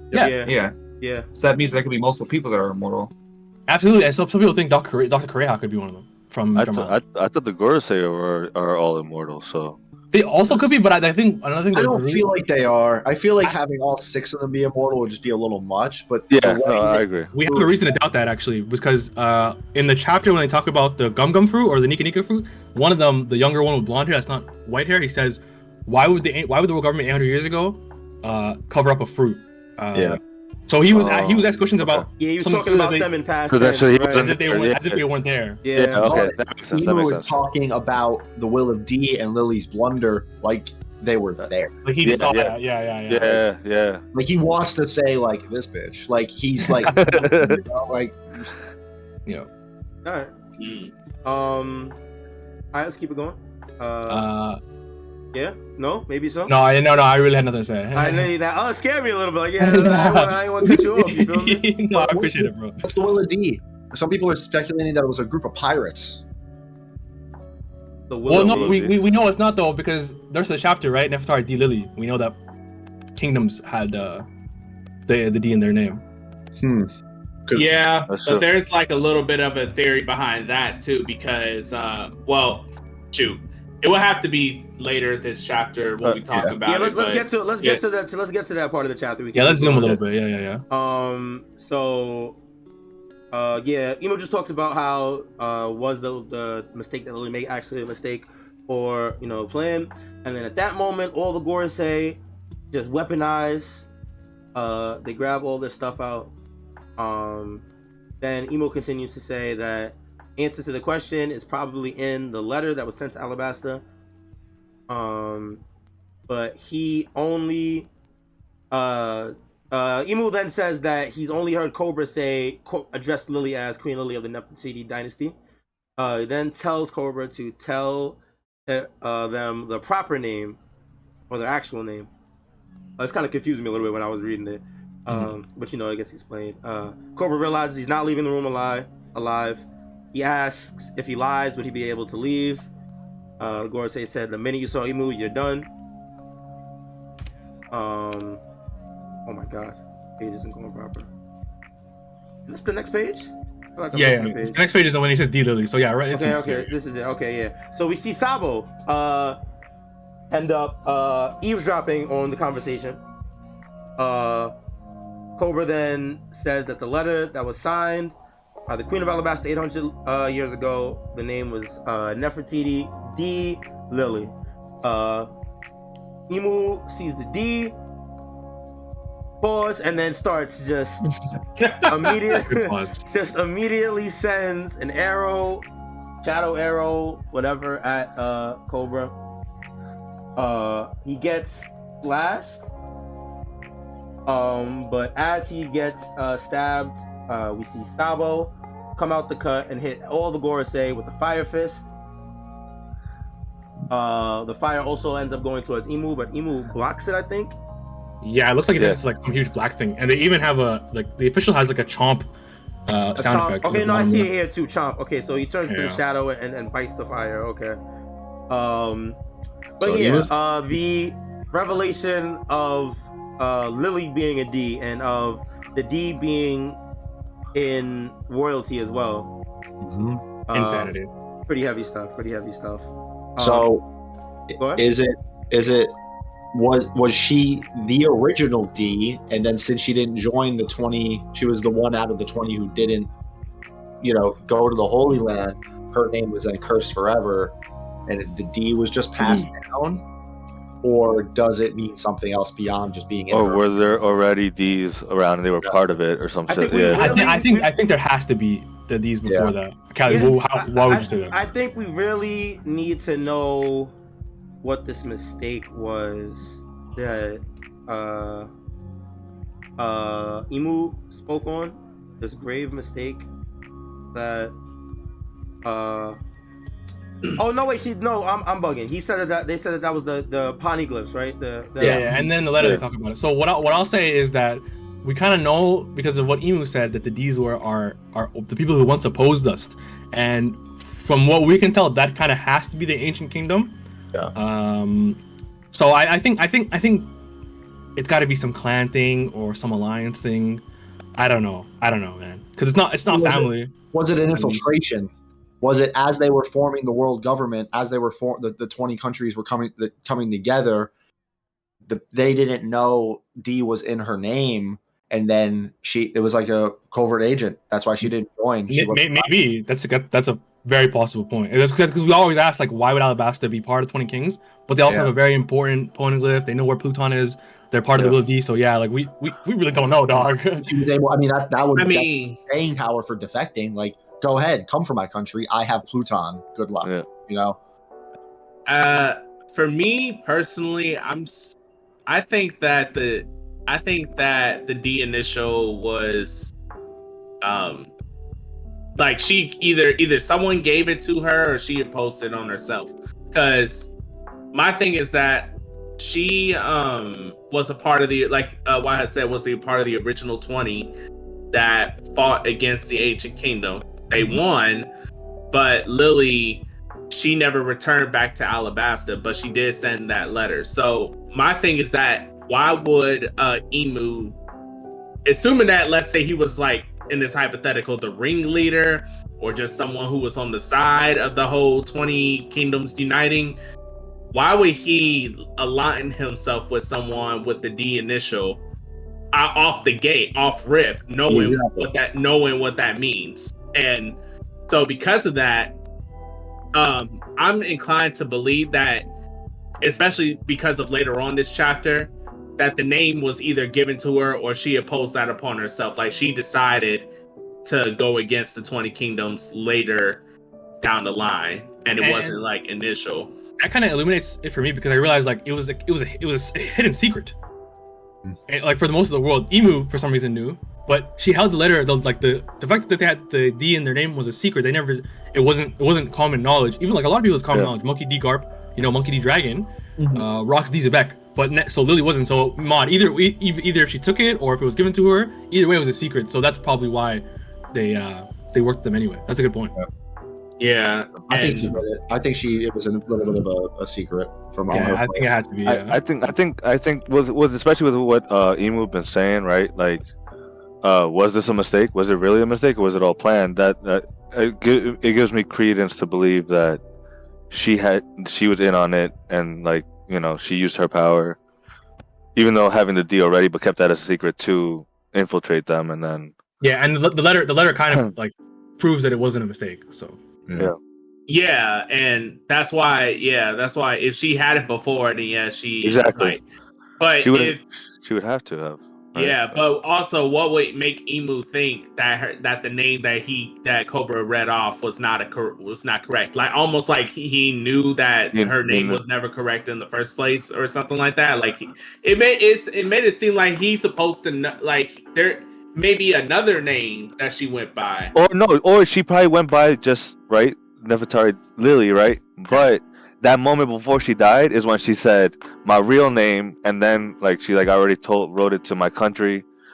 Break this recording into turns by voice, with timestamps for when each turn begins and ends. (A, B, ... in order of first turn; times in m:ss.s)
0:00.1-0:01.3 A
0:00.4-0:00.8 B
0:01.3-0:03.1 B
0:03.7-0:06.9 C
0:06.5-0:09.8 D
0:10.1-0:12.3 C
0:11.7-0:17.8 E
0:16.3-0:17.3 D
0:17.3-0:33.1 C
0:30.9-0:32.0 D
0:32.2-0:34.3 A
0:33.5-0:35.0 D
0:34.1-0:35.6 C
0:35.6-0:36.1 A
0:35.7-0:37.4 D
0:36.0-0:41.7 E
0:41.8-0:43.4 C
0:42.0-0:42.6 D
0:43.1-0:44.0 D
0:44.1-0:48.4 E
0:46.8-0:47.6 D
0:46.9-0:47.2 C
0:50.0-0:50.3 A
0:50.6-0:50.9 F
0:51.2-0:52.0 A
0:52.7-0:54.3 A
0:54.1-0:54.6 C
0:55.3-0:56.5 A
0:56.5-0:58.3 C
0:57.9-1:01.7 A
0:59.6-1:02.8 C
1:01.9-1:06.2 E
1:08.1-1:08.8 A
1:08.3-1:12.4 C
1:08.3-1:08.9 D
1:13.2-1:14.2 C
1:15.1-1:16.0 C
1:16.6-1:16.9 E
1:17.5-1:27.8 F
1:18.1-1:18.4 D
1:26.6-1:30.0 A
1:29.3-1:30.6 C
1:30.7-1:32.4 A
1:33.3-1:42.2 A
1:42.7-1:43.8 A
1:44.5-1:46.3 A
1:47.0-1:47.6 A
1:48.2-1:53.8 A
1:54.9-1:55.6 A
1:56.3-1:57.9 A
1:58.7-2:05.4 A
2:06.0-2:10.6 A
2:11.3-2:12.1 A
2:13.0-2:22.7 A
2:23.4-2:25.7 A
2:27.7-2:28.4 A
2:29.2-2:31.1 A
2:32.5-2:34.6 A
2:33.9-2:36.7 C
2:36.1-2:39.4 A
2:40.3-2:43.0 A
2:44.0-2:44.5 A
2:45.4-2:48.2 A
2:48.7-2:55.3 A
2:56.3-2:57.7 A
2:59.4-3:01.1 A
3:01.0-3:01.3 B
3:01.6-3:02.1 F
3:01.9-3:05.6 A
3:02.5-3:03.0 C
3:06.2-3:09.1 A
3:10.4-3:12.7 A
3:14.2-3:21.9 A
3:23.9-3:27.5 A
3:28.2-3:32.3 C
3:32.9-3:34.3 C
3:33.2-3:37.8 A
3:35.7-3:36.0 C
3:38.5-3:39.2 A
3:39.8-3:46.8 A
3:39.8-3:40.3 E
3:47.5-3:49.3 A
3:49.8-3:50.2 E
3:50.5-3:50.9 A
3:50.5-3:51.1 C
3:51.5-3:53.7 A
3:53.4-3:53.8 E
3:54.5-3:55.9 E
3:56.5-4:03.1 E
4:04.0-4:07.5 E
4:08.1-4:10.0 E
4:10.8-4:13.6 E
4:13.3-4:17.3 D
4:16.5-4:17.7 A
4:16.9-4:21.4 C
4:19.2-4:19.5 E
4:20.0-4:23.9 A
4:24.6-4:28.5 A
4:29.8-4:33.2 A
4:34.1-4:34.5 A
4:35.6-4:36.2 A
4:37.4-4:42.1 A
4:41.8-4:53.7 C
4:54.3-4:55.2 C
4:55.7-4:57.1 C
4:58.0-5:00.6 C
5:01.2-5:03.7 C
5:03.1-5:10.9 E
5:04.3-5:04.7 C
5:11.8-5:19.3 E
5:18.7-5:30.7 C
5:24.9-5:25.1 E
5:30.5-5:37.6 E
5:31.8-5:32.4 F
5:38.7-5:41.6 F
5:42.1-5:46.5 F
5:47.4-5:47.9 F
5:49.0-5:53.9 F
5:54.5-6:00.9 F
6:01.5-6:04.9 F
6:05.5-6:14.4 F
6:15.2-6:23.6 F
6:24.3-6:28.6 F
6:29.3-6:35.8 F
6:31.3-6:31.9 E
6:36.7-6:39.1 F
6:39.8-6:47.1 F
6:47.6-6:50.2 F
6:50.8-6:53.3 F
6:52.0-6:52.4 C
6:53.6-6:57.3 C
6:58.5-7:19.8 C
7:10.0-7:10.2 B
7:20.6-7:21.8 F
7:21.3-7:25.3 E
7:24.7-7:26.0 C
7:25.6-7:30.1 D
7:30.8-7:36.8 D
7:37.5-7:41.4 D
7:42.3-7:46.3 D
7:46.6-7:50.2 C
7:51.3-7:56.4 F
7:55.8-7:56.4 D
7:57.0-7:57.6 F
7:57.2-7:59.6 D
7:59.1-8:18.1 F
8:08.3-8:09.0 D
8:18.1-8:29.4 D